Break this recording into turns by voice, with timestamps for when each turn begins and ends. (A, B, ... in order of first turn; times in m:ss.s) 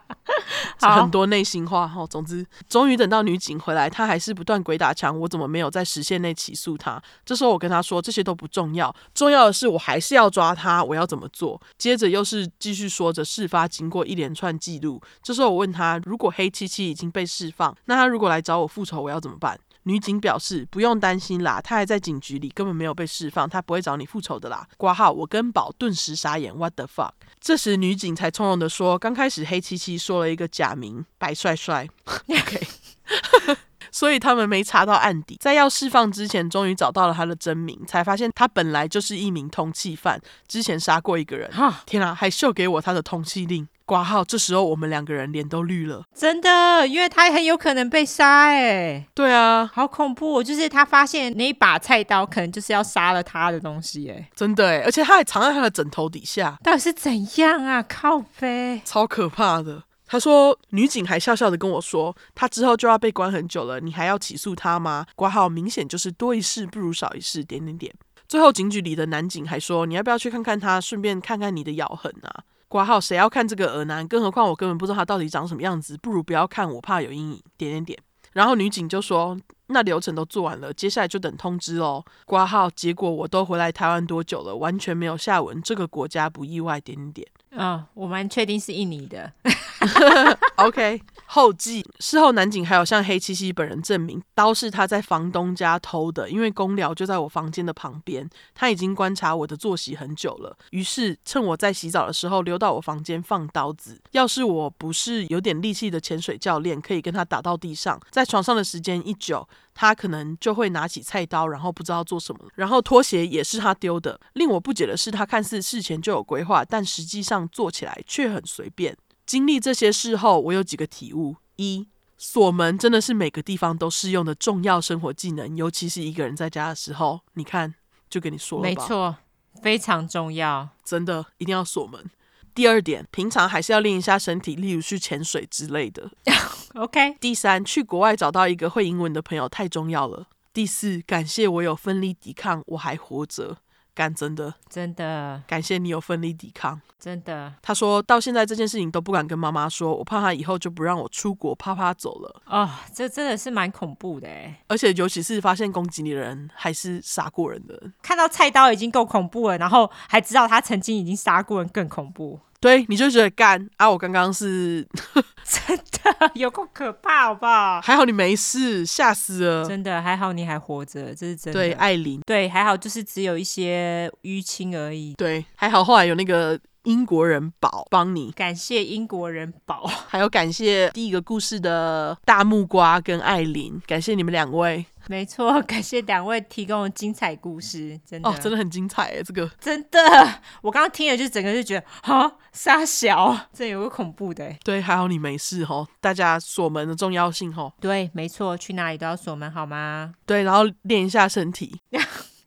0:00.8-0:01.1 A
0:00.8-0:46.0 B
0:41.5-0:41.8 A
0:46.2-0:49.1 A
0:49.2-0:49.7 B
0:49.7-0:54.3 A
0:54.4-0:56.6 B
0:56.6-0:58.8 A
0:58.8-1:27.3 B
1:27.5-1:30.5 A
1:29.8-2:08.9 B
2:08.6-2:10.7 A
2:10.8-2:16.1 B
2:16.3-2:17.2 A
2:17.2-2:24.6 B
2:24.7-2:25.4 A
2:25.5-2:26.8 B
2:27.0-2:27.6 A
2:27.6-2:32.4 B
2:32.5-2:34.6 A
2:34.7-2:37.9 B
2:38.0-2:42.4 A
2:42.6-2:45.2 B
2:45.4-2:47.8 A
2:47.8-2:49.7 B
2:49.6-2:55.2 A
2:51.5-2:52.2 B
2:55.2-2:58.3 B
2:58.4-3:00.1 A
3:00.1-3:04.9 B
3:05.1-3:08.5 A
3:08.2-3:09.5 B
3:09.6-3:14.6 A
3:14.6-3:17.7 B
3:17.8-3:20.2 A
3:20.3-3:21.8 B
3:21.9-3:22.3 A